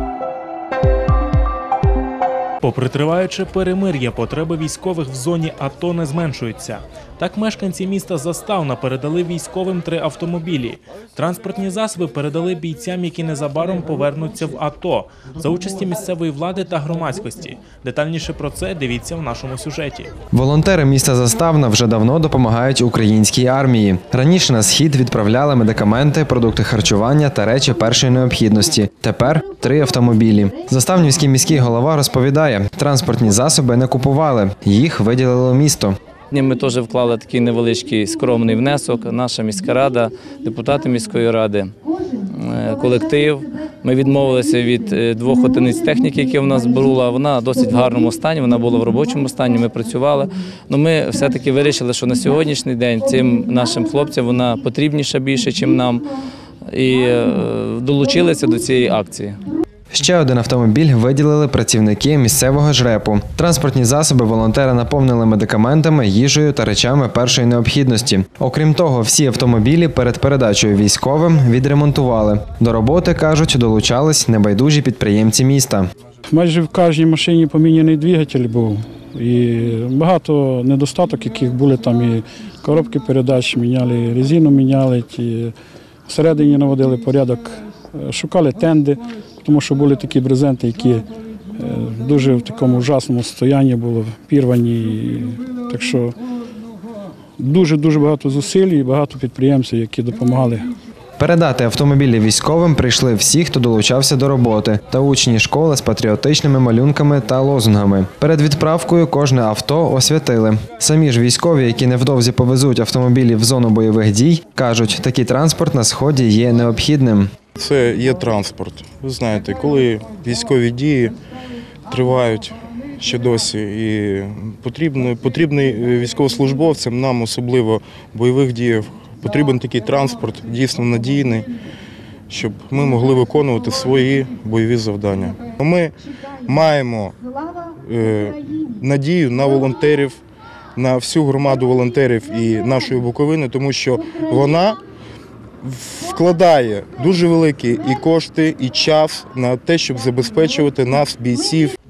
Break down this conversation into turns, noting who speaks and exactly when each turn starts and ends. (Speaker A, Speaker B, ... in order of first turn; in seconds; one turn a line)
Speaker A: 2.6-20.1
Speaker B: 20.3-36.0
Speaker C: 36.3-41.7
Speaker C: 42.4-56.0
Speaker C: 56.7-59.4
Speaker B: 59.9-75.9
Speaker D: 76.3-85.5
Speaker D: 86.1-91.0
Speaker D: 91.6-96.1
Speaker D: 97.4-100.7
Speaker B: 101.2-117.3
Speaker E: 117.5-121.2
Speaker E: 121.9-131.5
Speaker E: 132.3-135.9
Speaker E: 136.4-137.2
Speaker E: 137.8-140.2
Speaker E: 140.8-144.8
Speaker E: 145.6-151.7